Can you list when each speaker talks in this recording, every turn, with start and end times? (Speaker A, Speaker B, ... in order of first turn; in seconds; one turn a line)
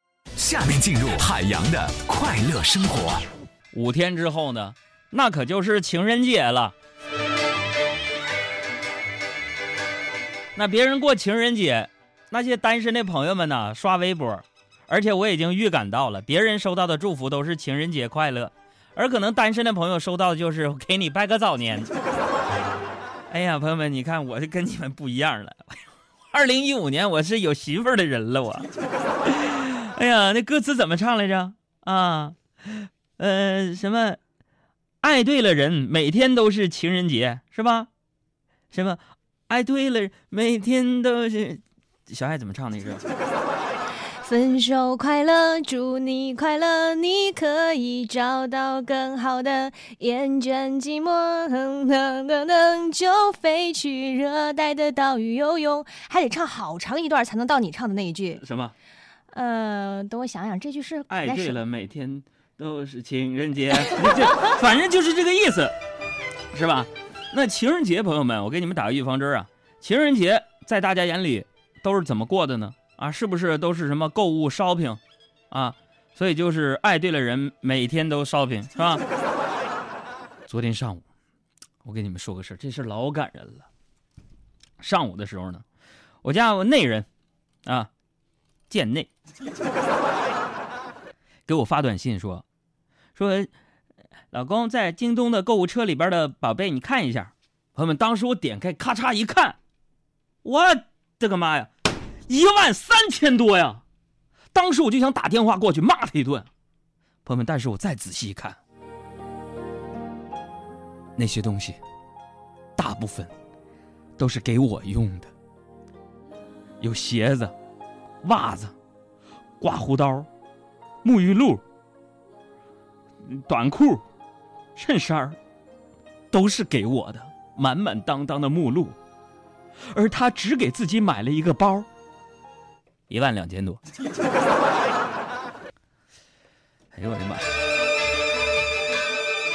Speaker A: 0.4-3.2
Speaker B: 3.7-6.7
Speaker B: 10.5-21.9
Speaker B: 23.3-25.8
Speaker B: 26.3-28.7
Speaker B: 29.2-34.2
Speaker B: 35.0-37.9
Speaker B: 38.7-43.0
Speaker C: 44.2-58.4
Speaker B: 58.3-58.7
Speaker C: 59.3-61.6
Speaker B: 61.1-65.7
Speaker B: 66.5-75.0
Speaker B: 75.5-79.0
Speaker B: 80.5-81.0
Speaker B: 81.8-83.7
Speaker B: 84.8-85.6
Speaker B: 86.2-87.1
Speaker B: 88.7-89.1
Speaker B: 91.5-92.4
Speaker B: 93.1-93.5
Speaker B: 94.3-99.6
Speaker B: 100.4-101.7
Speaker B: 102.3-103.8
Speaker B: 104.5-106.5
Speaker B: 107.2-108.6
Speaker B: 111.2-111.8
Speaker B: 112.8-113.3
Speaker B: 114.2-115.3
Speaker B: 116.8-117.5
Speaker B: 118.2-118.7
Speaker B: 119.6-120.3
Speaker B: 121.0-121.6
Speaker B: 123.2-124.0
Speaker B: 124.7-125.4
Speaker B: 126.3-129.0
Speaker B: 129.9-131.9
Speaker B: 133.1-133.8
Speaker B: 136.9-137.5